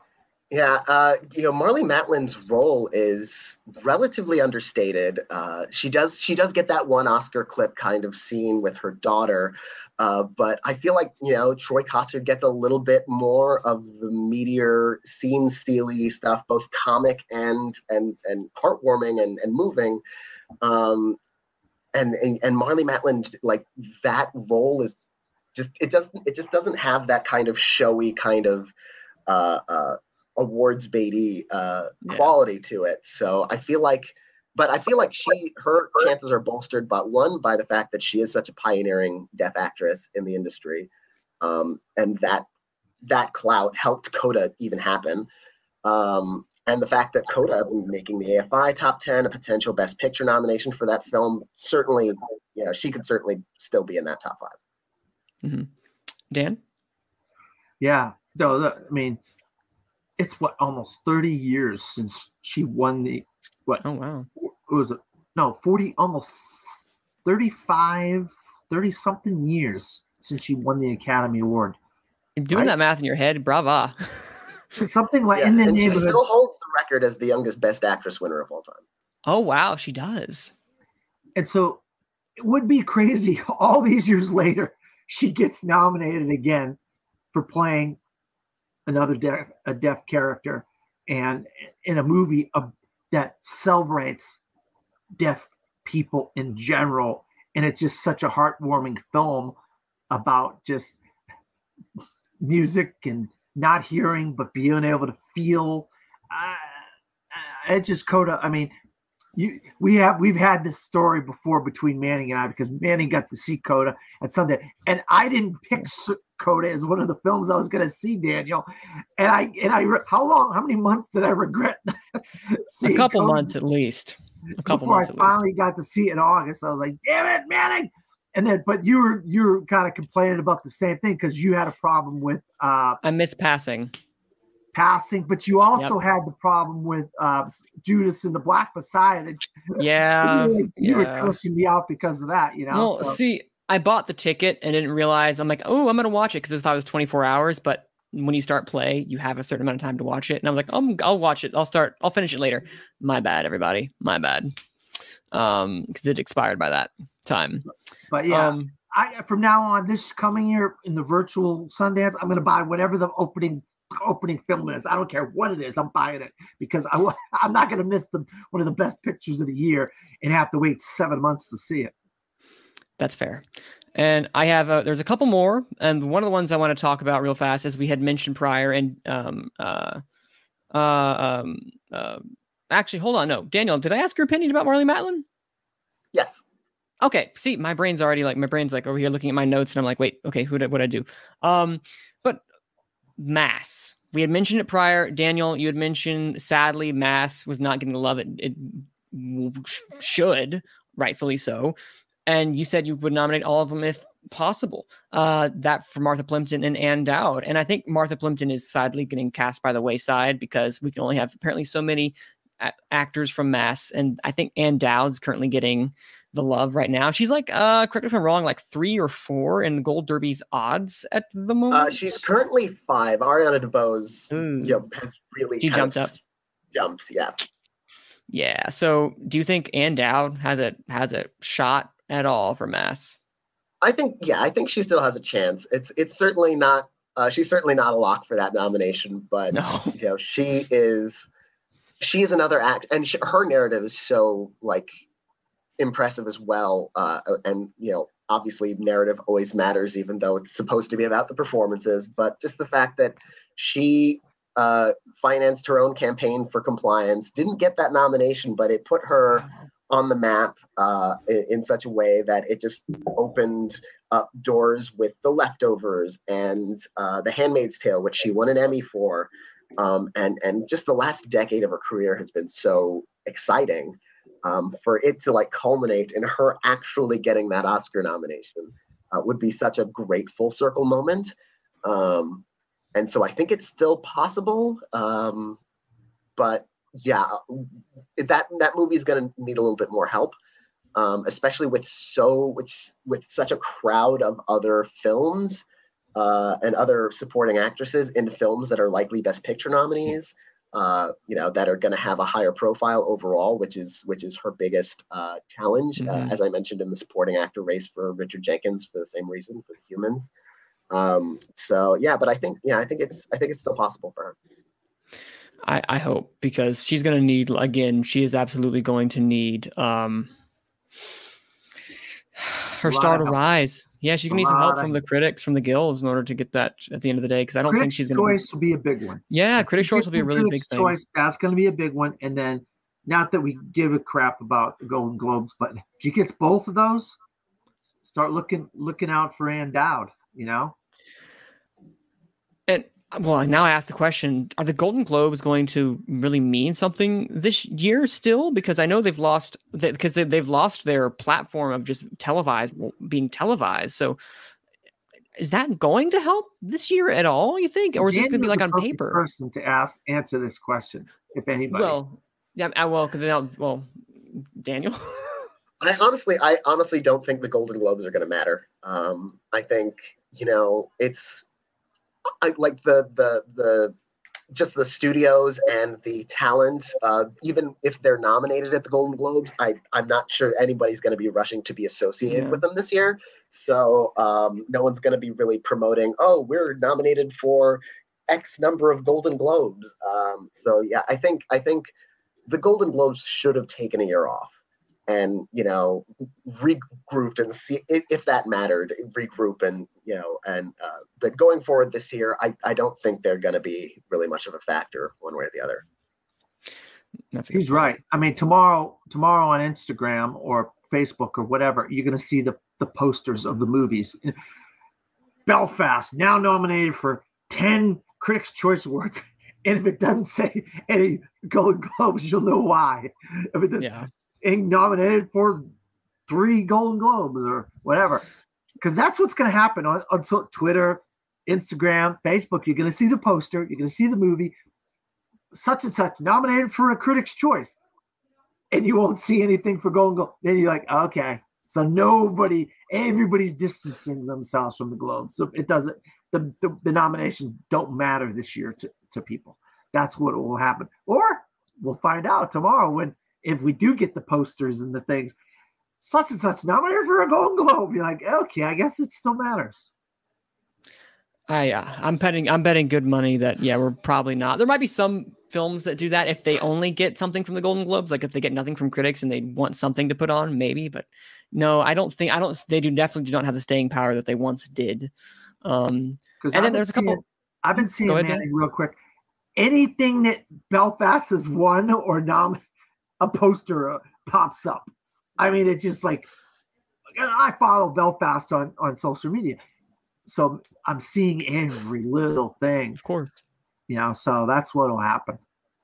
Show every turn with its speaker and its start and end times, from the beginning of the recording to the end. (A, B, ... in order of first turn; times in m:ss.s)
0:00.5-0:20.0 A
0:20.6-0:21.2 A
0:21.9-0:24.9 A
0:25.5-0:28.7 A
0:29.3-0:40.9 A
0:32.0-0:32.3 B
0:41.4-0:42.5 A
0:43.0-0:45.3 A
0:45.8-0:54.5 A
0:55.4-0:55.7 B
0:56.3-0:56.6 B
0:57.8-0:59.2 C
1:00.2-1:03.8 C
1:03.8-1:04.3 B
1:04.4-1:11.8 C
1:12.4-1:14.4 B
1:14.8-1:16.2 C
1:15.3-1:18.8 A
1:19.3-1:20.5 B
1:21.4-1:21.8 C
1:22.4-1:26.8 C
1:27.3-1:28.0 C
1:28.8-1:34.4 C
1:35.2-1:39.5 C
1:40.1-1:41.0 C
1:42.4-1:48.7 C
1:49.3-1:58.6 C
1:59.2-2:03.5 C
2:02.8-2:05.4 B
2:04.6-2:13.0 C
2:13.0-2:13.9 B
2:14.7-2:23.2 C
2:19.8-2:21.4 B
2:22.7-2:34.5 B
2:35.3-2:37.7 B
2:38.1-2:51.9 C
2:38.3-2:38.7 B
2:53.0-3:00.0 B
3:00.7-3:05.2 B
3:06.1-3:06.4 A
3:07.0-3:12.4 B
3:13.2-3:42.0 B
3:41.7-3:46.2 A
3:44.3-3:44.8 B
3:45.6-3:46.1 B
3:46.7-3:47.4 A
3:48.3-3:53.2 B
3:53.8-4:01.3 A
3:59.5-3:59.9 B
4:02.0-4:04.9 A
4:05.8-4:41.3 A
4:41.8-4:42.4 A
4:42.9-4:45.6 A
4:46.4-4:50.3 A
4:50.9-4:55.6 A
4:56.1-5:10.3 A
5:06.0-5:06.3 B
5:10.9-5:14.3 A
5:15.6-5:20.3 B
5:22.4-5:28.4 B
5:22.8-5:23.4 C
5:24.3-5:25.0 C
5:27.7-5:37.2 C
5:29.3-5:31.0 B
5:38.0-5:40.7 C
5:42.7-5:54.2 B
5:55.4-5:59.2 B
5:57.9-6:02.0 C
6:01.7-6:05.5 B
6:05.8-6:11.4 A
6:12.4-6:13.9 A
6:14.5-6:31.9 A
6:22.3-6:22.6 B
6:32.5-6:34.5 A
6:35.1-6:45.8 A
6:47.3-6:47.9 B
6:47.5-6:54.4 C
6:55.4-7:03.8 C
7:03.8-7:04.1 B
7:04.4-7:05.7 C
7:06.3-7:08.2 C
7:08.8-7:14.5 C
7:15.5-7:17.8 C
7:18.7-7:35.3 C
7:36.0-7:39.9 C
7:41.5-7:55.1 B
7:55.6-7:57.2 B
7:56.4-7:59.0 C
7:58.0-7:58.4 B
7:59.6-8:02.6 C
8:03.2-8:06.3 C
8:07.1-8:09.6 C
8:10.2-8:13.0 C
8:13.0-8:13.4 B
8:13.9-8:15.4 C